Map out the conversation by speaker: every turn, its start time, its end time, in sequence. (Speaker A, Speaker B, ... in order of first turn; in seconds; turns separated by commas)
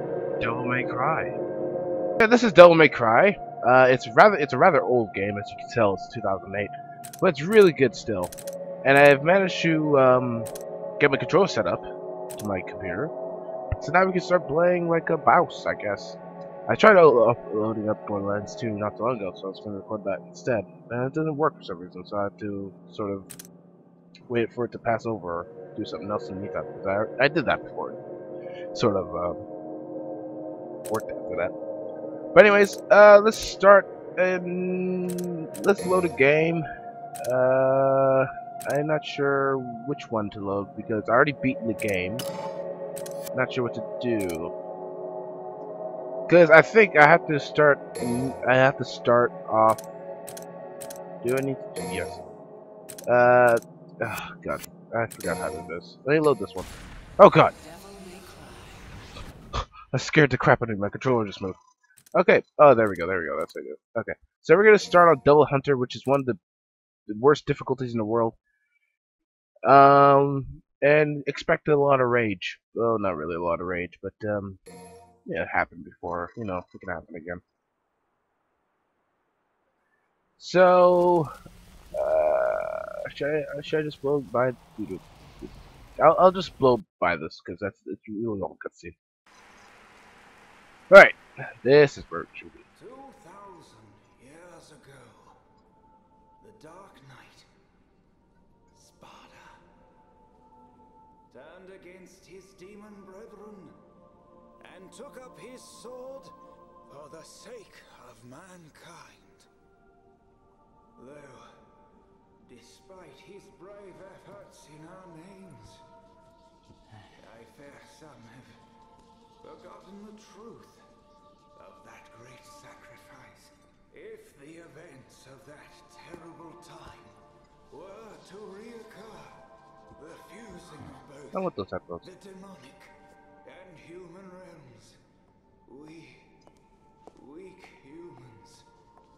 Speaker A: 0.4-1.3, Speaker A: 2.2-8.3, Speaker A: 8.8-11.9, Speaker A: 12.4-13.1, Speaker A: 13.8-23.3, Speaker A: 24.3-28.0, Speaker A: 28.7-29.4, Speaker A: 30.9-31.5, Speaker A: 32.3-36.7, Speaker A: 37.2-42.2, Speaker A: 43.3-44.5, Speaker A: 46.3-49.8, Speaker A: 51.2-52.2, Speaker A: 53.1-57.5, Speaker B: 57.6-58.9, Speaker A: 59.5-61.6, Speaker A: 62.1-66.4, Speaker A: 67.1-68.4, Speaker A: 69.7-74.6, Speaker A: 75.3-77.4, Speaker A: 80.4-81.3, Speaker A: 82.0-89.0, Speaker A: 90.9-92.6, Speaker B: 92.8-95.4, Speaker B: 96.4-97.5, Speaker B: 98.7-99.6, Speaker B: 101.3-103.8, Speaker B: 104.6-106.4, Speaker B: 106.9-109.5, Speaker B: 111.0-111.7, Speaker B: 112.4-115.8, Speaker B: 117.2-118.6, Speaker B: 119.4-120.9, Speaker B: 121.5-127.2, Speaker B: 127.7-129.4, Speaker B: 129.9-131.5, Speaker A: 131.3-132.1, Speaker B: 132.0-135.0, Speaker B: 135.7-136.3, Speaker B: 137.1-138.7